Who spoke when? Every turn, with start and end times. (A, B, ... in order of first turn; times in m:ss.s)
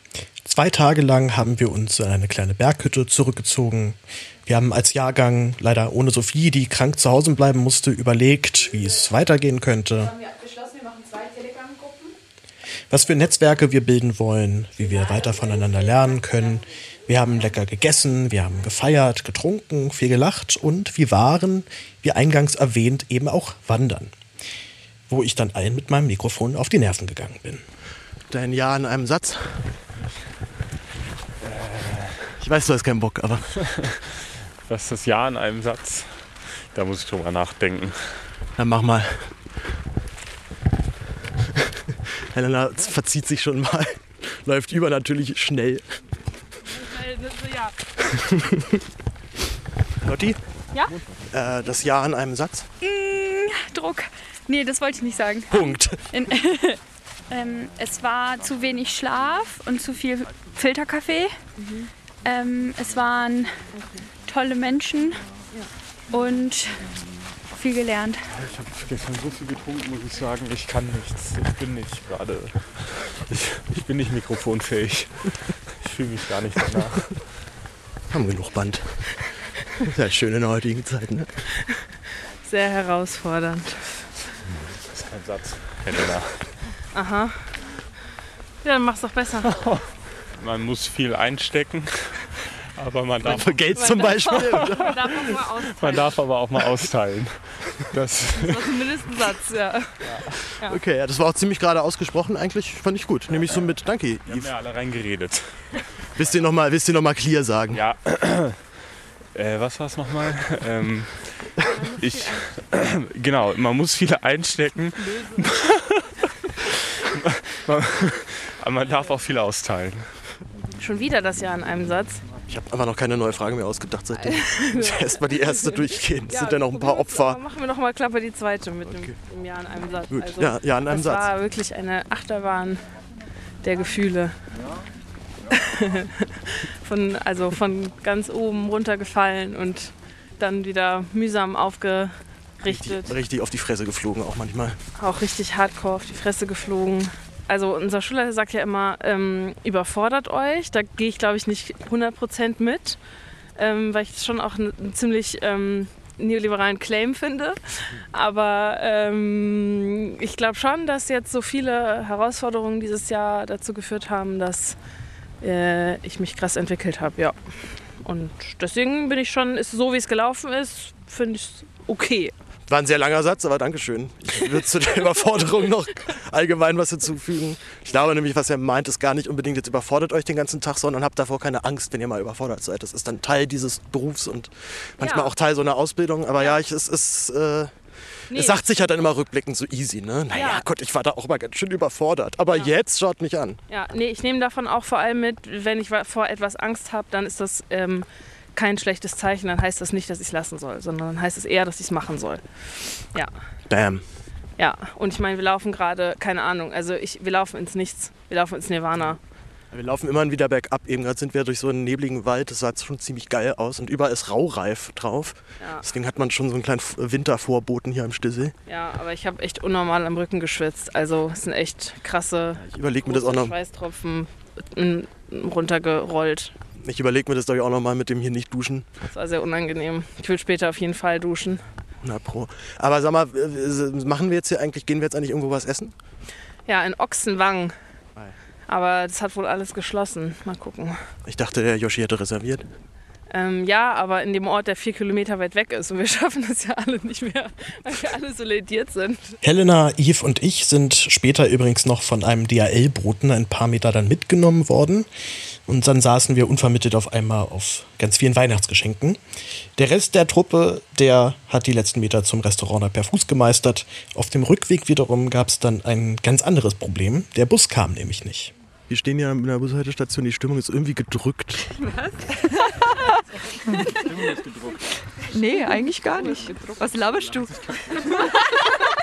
0:00.4-0:10.2 A
0:10.3-0:12.1 B
0:12.9-0:24.1 A
0:25.1-0:27.6 A
0:28.3-0:29.4 C
0:31.4-0:32.4 D
0:32.4-0:33.5 C
0:34.6-0:38.3 D
0:38.6-0:39.1 C
0:42.4-0:44.5 C
0:42.4-0:43.1 A
0:44.5-0:45.6 A
0:45.5-0:45.8 C
0:46.8-0:47.7 E
0:50.0-0:50.4 A
0:51.3-0:52.6 C
0:52.8-1:01.4 F
0:55.5-0:55.9 C
1:01.6-1:01.9 E
1:02.2-1:03.6 F
1:04.2-1:05.2 F
1:06.1-1:06.9 F
1:07.5-1:08.2 F
1:08.3-1:17.2 D
1:18.1-1:18.9 C
1:19.9-1:21.3 C
1:22.4-1:24.1 E
1:24.6-1:26.6 D
1:26.9-1:27.5 E
1:28.6-1:29.6 E
1:29.5-1:29.8 D
1:30.4-1:39.0 D
1:33.2-1:36.0 E
1:33.2-1:35.2 C
1:38.5-1:39.9 E
1:40.0-1:40.4 D
1:40.5-1:40.8 E
1:40.7-1:44.5 C
1:43.4-1:43.6 D
1:44.2-1:46.4 D
1:46.2-1:47.8 C
1:47.7-1:48.7 D
1:49.3-2:00.3 D
2:00.8-2:02.2 E
2:02.5-2:07.3 C
2:04.1-2:12.8 E
2:10.2-2:11.1 C
2:13.6-2:14.4 E
2:15.5-2:23.2 E
2:22.7-2:24.8 C
2:25.0-2:33.0 E
2:33.6-2:44.8 E
2:45.4-2:52.3 E
2:52.7-3:07.7 C
3:05.0-3:05.3 E
3:08.3-3:08.6 E
3:08.3-3:13.6 C
3:10.3-3:10.6 E
3:12.5-3:12.7 E
3:13.7-3:23.3 E
3:23.7-3:24.0 C
3:24.6-3:29.2 E
3:29.7-3:38.5 C
3:35.6-3:35.9 E
3:38.7-3:46.6 E
3:42.6-3:43.5 C
3:46.8-3:48.9 C
3:49.0-3:51.6 E
3:52.0-3:55.9 C
3:56.6-3:57.7 E
3:58.7-4:01.0 E
4:01.3-4:02.6 C
4:03.3-4:09.4 E
4:09.4-4:15.1 A
4:15.7-4:19.2 A
4:19.8-4:28.5 A
4:28.9-4:31.6 C
4:31.8-4:32.6 B
4:35.3-4:38.3 B